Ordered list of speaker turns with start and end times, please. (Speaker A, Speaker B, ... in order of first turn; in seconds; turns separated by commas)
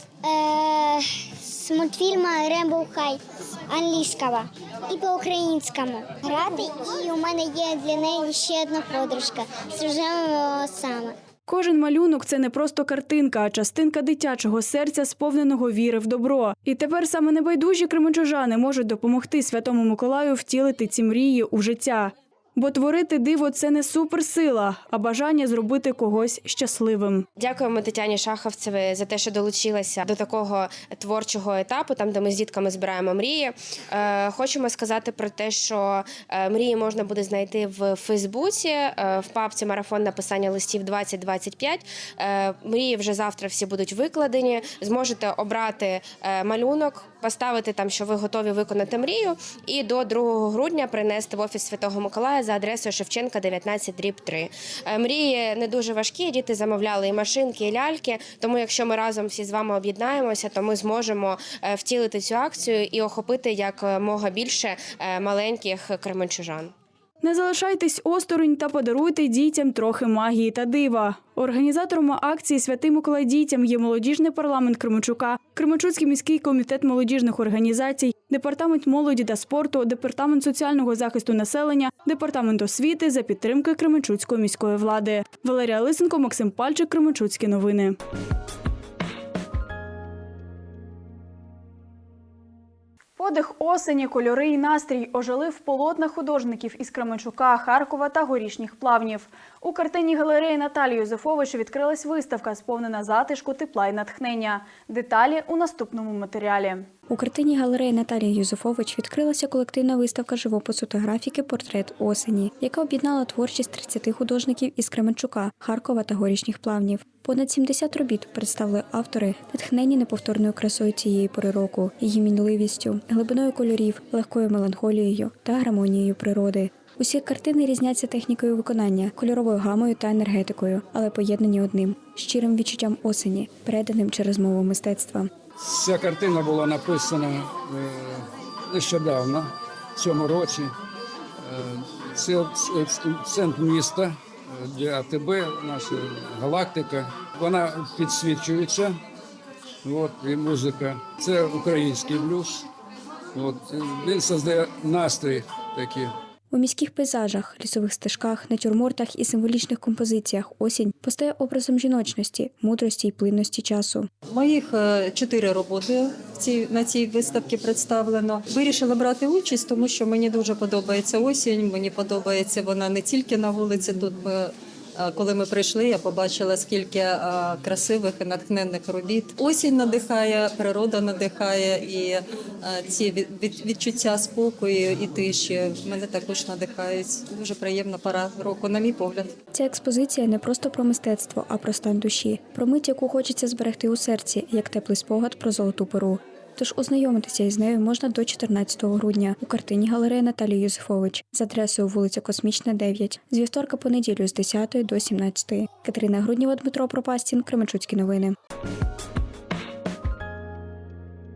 Speaker A: 0.2-11.2, Speaker B: 11.5-27.3, Speaker C: 27.4-66.7, Speaker B: 67.2-88.0, Speaker B: 93.2-106.9, Speaker D: 107.1-135.3, Speaker E: 135.6-140.7, Speaker E: 141.5-148.9, Speaker E: 149.8-152.6, Speaker E: 153.3-156.1, Speaker D: 156.5-164.1, Speaker F: 164.3-189.3, Speaker D: 189.5-208.3